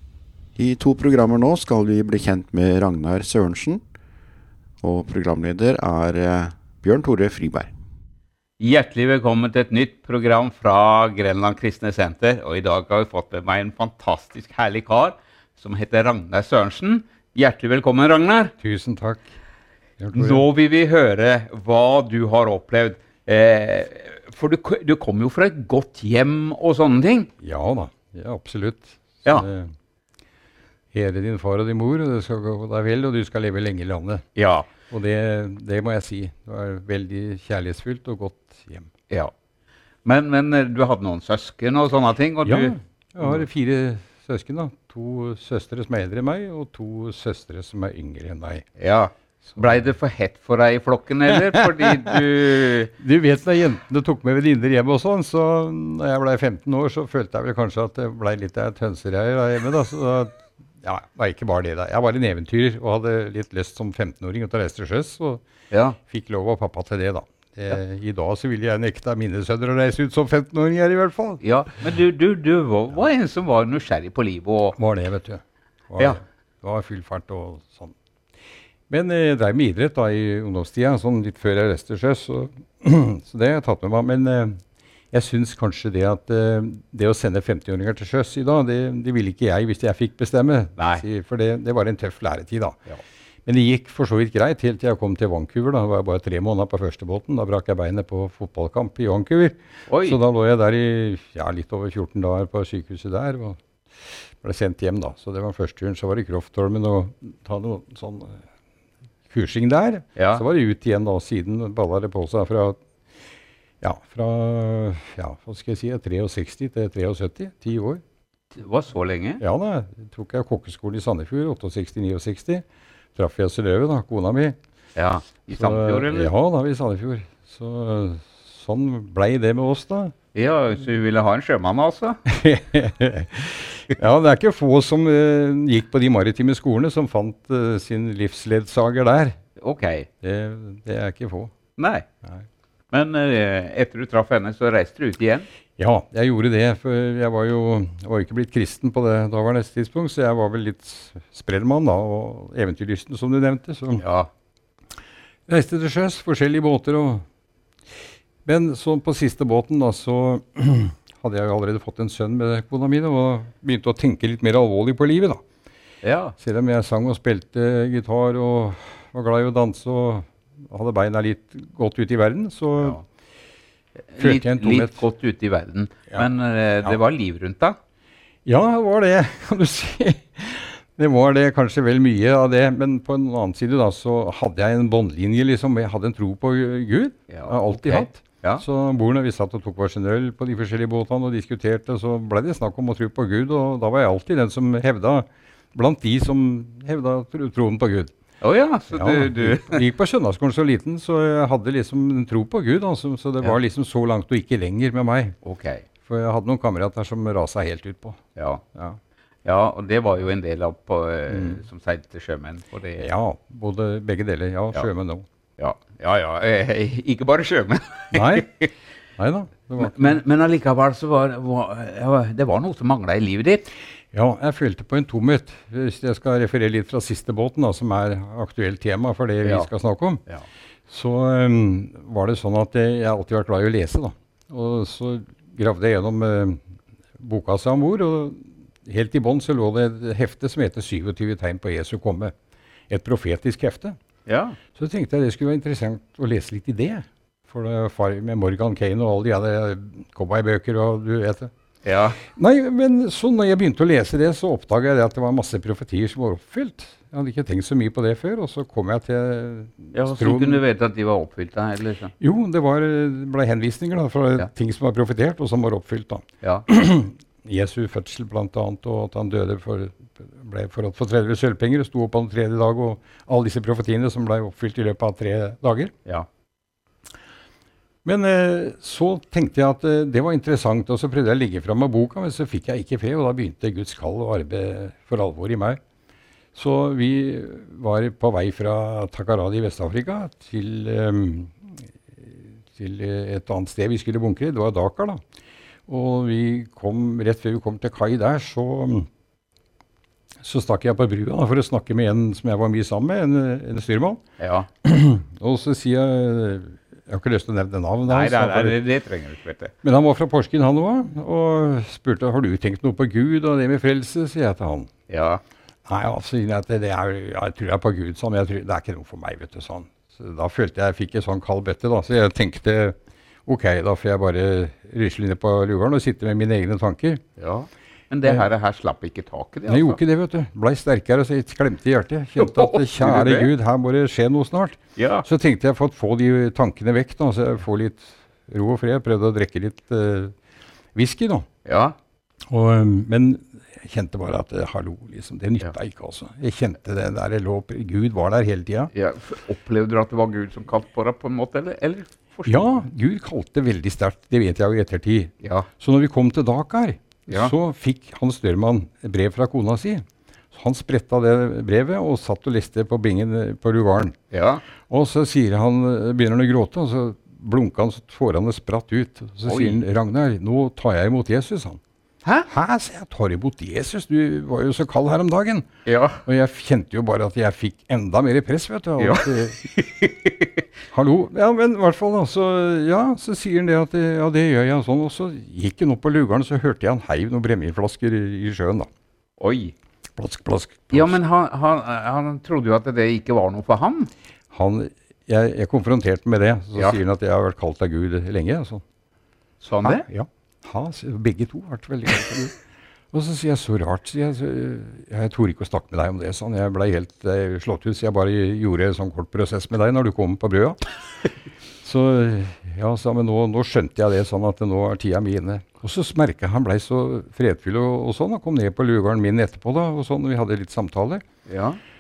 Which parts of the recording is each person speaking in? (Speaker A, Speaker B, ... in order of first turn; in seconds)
Speaker A: 0.6-3.8, 4.8-7.7
Speaker B: 8.6-18.5, 20.1-27.3, 34.4-34.7, 40.0-43.4, 48.8-52.9, 65.7-66.0, 71.4-74.8, 90.8-91.0, 99.9-100.2, 110.2-110.4, 118.5-119.4, 125.0-126.3, 130.3-132.2, 139.6-140.1, 141.8-142.1, 142.9-145.5, 154.0-154.3, 166.0-166.4, 174.1-177.8, 187.3-188.6, 198.4-199.8, 205.4-205.8, 208.4-208.6, 209.4-213.1, 215.6-218.7, 219.8-223.7, 229.4-229.7, 244.3-244.6, 251.8-252.2, 259.9-262.1, 304.4-304.7, 308.1-309.7, 315.1-315.4, 327.4-330.0, 332.4-333.5, 335.0-335.3, 341.6-342.0, 348.9-352.9, 355.4-355.7, 357.3-357.5, 364.3-364.6, 369.5-369.8, 372.2-372.5, 375.9-376.2, 379.0-380.6, 389.4-389.7, 390.9-394.1, 399.6-400.1, 421.5-421.8
Speaker C: 18.6-19.3, 20.0-20.4, 27.4-29.7, 30.9-34.2, 34.9-38.9, 42.4-48.7, 51.3-52.2, 52.9-65.4, 66.0-71.4, 74.8-77.9, 78.9-84.6, 85.1-92.8, 93.5-103.6, 104.4-108.4, 109.3-112.8, 113.8-118.0, 119.4-124.6, 125.5-130.1, 132.3-139.4, 140.2-141.5, 145.8-154.0, 155.5-157.2, 158.4-165.4, 166.4-173.0, 174.2-175.0, 178.5-198.1, 198.9-205.4, 206.1-208.2, 211.3-211.6, 213.0-215.2, 218.1-218.5, 219.2-220.2, 224.1-230.2, 230.9-236.6, 237.2-242.3, 242.9-244.0, 244.8-251.5, 252.2-260.6, 262.2-275.9, 278.1-285.8, 286.6-295.2, 295.9-299.1, 300.4-304.2, 304.8-308.8, 309.8-314.9, 315.9-327.2, 329.7-340.3, 340.9-341.5, 342.5-348.9, 352.5-364.2, 364.9-371.8, 372.5-375.7, 376.2-379.6, 380.9-388.9, 390.2-391.2, 394.5-398.8, 399.8-402.6, 403.1-410.8, 411.8-421.2